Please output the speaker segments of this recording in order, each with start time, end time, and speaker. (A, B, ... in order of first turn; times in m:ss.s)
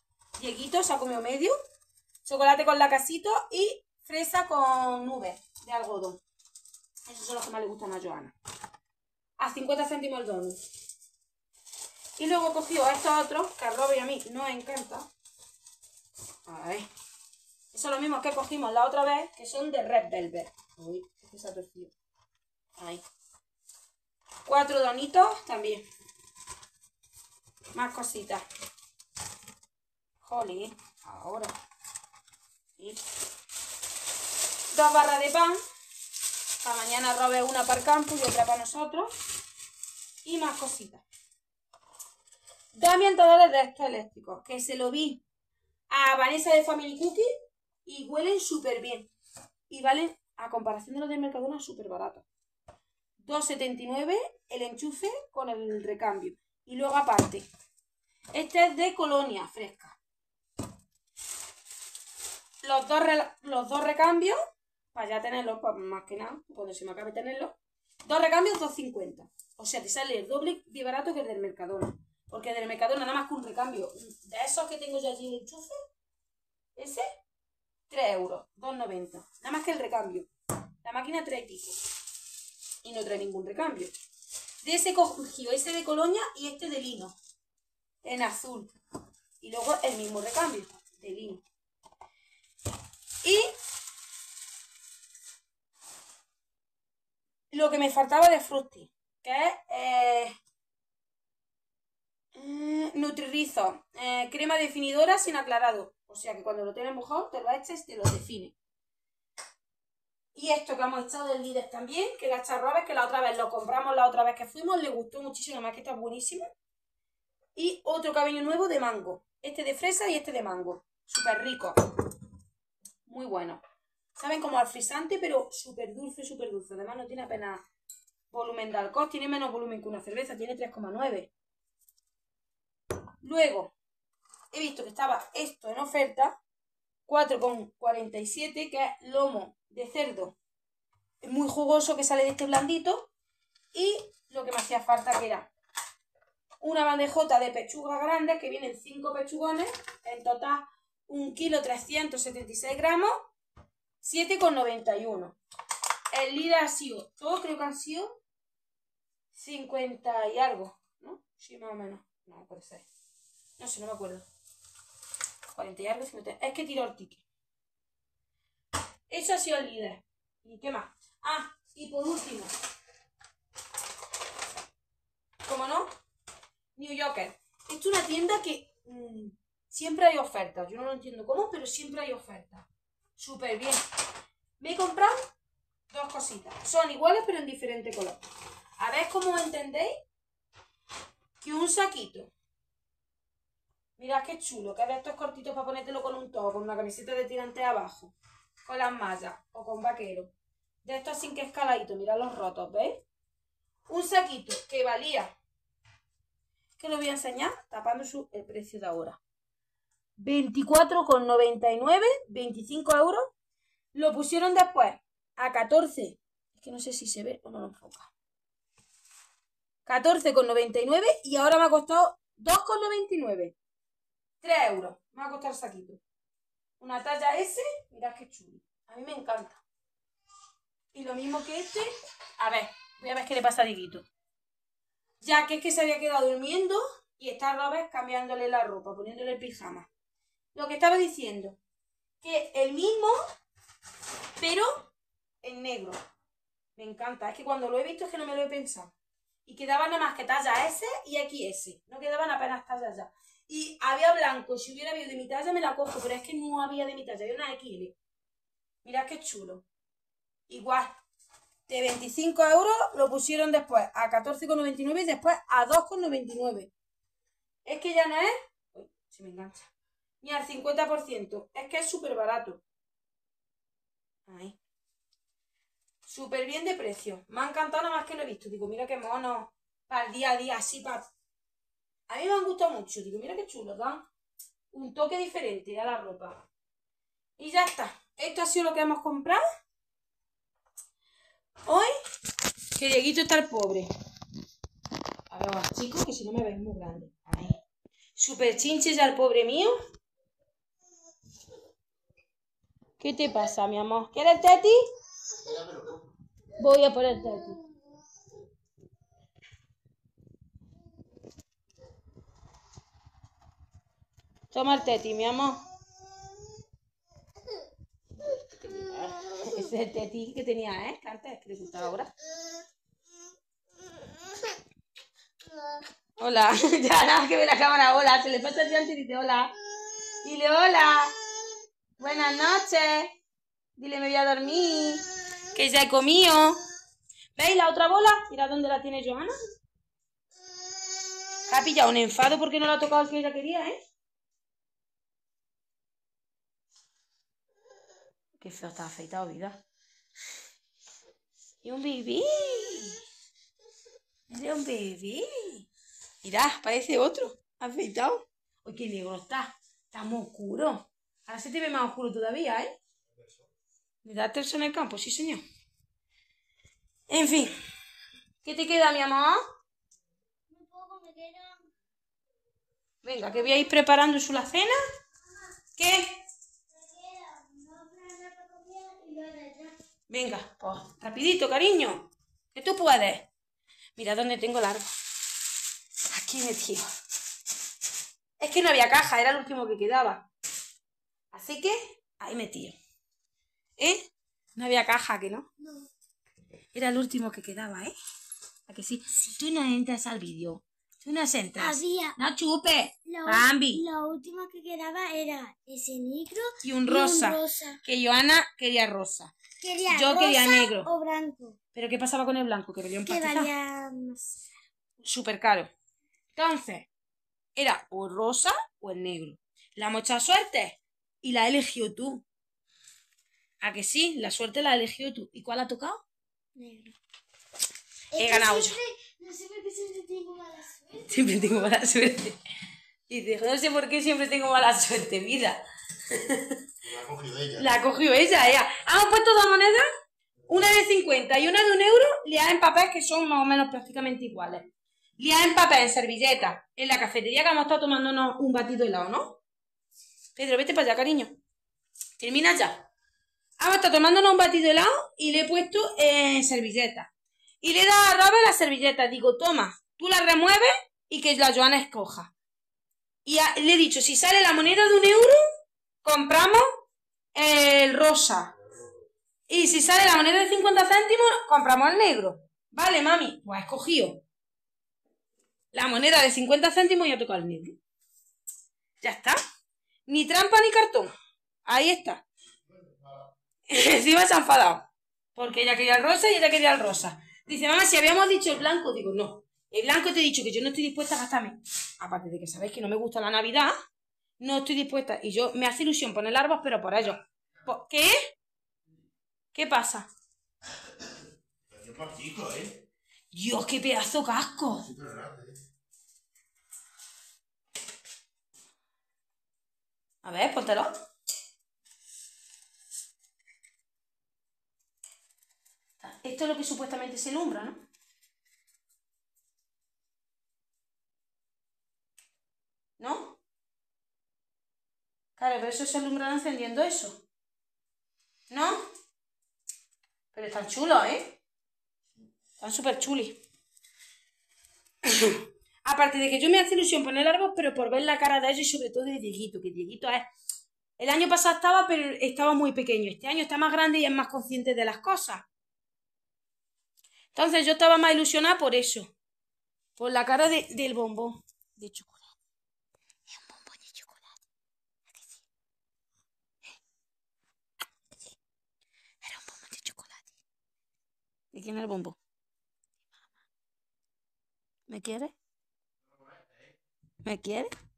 0:00.4-0:01.6 A
0:02.2-0:06.2 A
0:07.1-0:08.3 A
0:09.4-0:10.6 A
0:12.2-0:15.1 A
0:16.4-0:16.9 A
0:17.7-0:21.9 A
0:24.4-0:25.8 A
0:27.7-0:28.4 A
0:30.2-0:31.5 A
0:34.7-0:35.6 A
0:36.6-0:39.1 A
0:40.2-0:41.0 A
0:42.7-0:45.2 A
0:45.9-0:47.3 A
0:47.9-0:49.1 A
0:49.7-0:52.2 A
0:53.2-0:57.4 A
0:58.3-1:00.0 A
1:02.6-1:04.4 A
1:04.9-1:15.7 A
1:16.8-1:17.0 A
1:17.9-1:20.3 A
1:20.8-1:21.7 A
1:22.8-1:23.9 A
1:24.6-1:27.2 A
1:28.0-1:28.7 A
1:29.4-1:31.4 A
1:33.2-1:33.5 A
1:37.5-1:40.3 A
1:42.4-1:48.6 A
1:50.4-1:56.5 A
1:57.6-2:01.8 A
2:03.1-2:03.6 A
2:04.2-2:07.6 A
2:08.3-2:11.3 A
2:13.2-2:13.7 A
2:14.5-2:16.4 A
2:17.1-2:20.4 A
2:21.2-2:23.1 A
2:23.7-2:25.5 A
2:26.6-2:33.3 A
2:34.0-2:35.4 A
2:36.1-2:38.2 A
2:39.3-2:42.9 A
2:43.6-2:44.2 A
2:45.5-2:47.2 A
2:49.1-2:52.5 A
2:55.4-2:55.9 A
2:56.8-3:03.8 A
3:04.6-3:05.1 A
3:05.9-3:08.2 A
3:08.8-3:10.0 A
3:11.4-3:12.3 A
3:14.0-3:18.1 A
3:18.6-3:20.3 A
3:20.8-3:23.0 A
3:23.9-3:25.4 A
3:26.8-3:29.2 A
3:30.2-3:33.3 A
3:33.9-3:38.1 A
3:39.9-3:43.6 A
3:44.4-3:46.0 A
3:46.8-3:49.6 A
3:50.9-3:54.0 A
3:55.2-3:59.9 A
4:00.6-4:01.6 A
4:02.2-4:03.2 A
4:04.4-4:04.9 A
4:05.4-4:06.0 A
4:06.8-4:08.9 A
4:09.4-4:18.0 A
4:18.8-4:19.6 A
4:20.5-4:20.9 A
4:21.7-4:26.7 A
4:27.6-4:29.7 A
4:30.2-4:32.6 A
4:34.3-4:34.6 A
4:36.1-4:41.1 A
4:42.1-4:44.0 A
4:44.7-4:46.4 A
4:47.4-4:49.4 A
4:52.8-4:53.9 A
4:55.3-4:57.6 A
4:58.2-4:59.7 A
5:03.0-5:04.8 A
5:05.4-5:06.0 B
5:06.6-5:07.6 A
5:14.5-5:15.6 A
5:19.2-5:22.1 A
5:26.2-5:29.5 A
5:30.2-5:31.1 A
5:32.0-5:33.2 A
5:33.8-5:36.6 A
5:37.4-5:39.3 A
5:41.5-5:43.8 A
5:48.4-5:49.6 A
5:51.6-5:53.0 A
5:54.3-5:55.7 A
5:56.2-6:02.8 A
6:04.0-6:05.4 A
6:07.1-6:07.5 A
6:08.4-6:09.4 A
6:10.5-6:11.7 C
6:13.0-6:14.8 A
6:13.2-6:13.7 C
6:15.8-6:16.2 A
6:16.7-6:19.7 C
6:20.1-6:23.3 A
6:24.0-6:24.9 A
6:26.1-6:26.9 A
6:28.4-6:30.2 A
6:31.3-6:32.8 A
6:33.8-6:35.5 A
6:35.6-6:35.9 C
6:36.7-6:37.9 A
6:38.7-6:43.8 A
6:41.6-6:42.1 C
6:43.1-6:47.8 C
6:46.6-6:49.3 A
6:49.6-6:51.6 C
6:49.9-6:50.9 A
6:51.7-6:53.5 A
6:53.1-6:54.4 C
6:55.0-6:55.7 A
6:56.4-6:56.9 A
6:57.6-7:02.2 A
7:03.6-7:06.0 A
7:06.6-7:06.9 C
7:08.1-7:11.6 C
7:08.2-7:08.8 A
7:11.1-7:12.4 A
7:13.1-7:16.5 A
7:16.8-7:17.7 B
7:17.6-7:19.8 A
7:20.5-7:29.4 A
7:30.4-7:31.3 A
7:32.2-7:32.9 A
7:33.6-7:37.1 A
7:37.6-7:42.3 A
7:43.2-7:45.4 A
7:46.0-7:46.6 A
7:47.3-7:48.5 A
7:49.5-7:54.2 A
7:55.7-7:57.8 A
7:59.0-7:59.4 A
8:00.1-8:01.1 A
8:01.6-8:02.2 A
8:02.7-8:03.2 B
8:03.7-8:13.7 A
8:14.4-8:18.3 A
8:19.5-8:20.1 A
8:21.7-8:22.8 B
8:23.3-8:24.9 A
8:24.8-8:25.6 B
8:30.2-8:30.9 A
8:36.0-8:37.8 A
8:43.0-8:43.4 A
8:45.4-8:47.2 A
8:48.5-8:48.8 A
8:50.3-8:51.4 A
8:52.6-8:53.4 A
8:55.0-9:00.3 A
9:01.0-9:05.5 A
9:07.3-9:09.1 A
9:10.0-9:12.3 A
9:13.3-9:14.3 A
9:19.2-9:20.3 A
9:21.5-9:22.2 A
9:24.9-9:25.3 A
9:26.1-9:26.8 B
9:27.2-9:27.7 A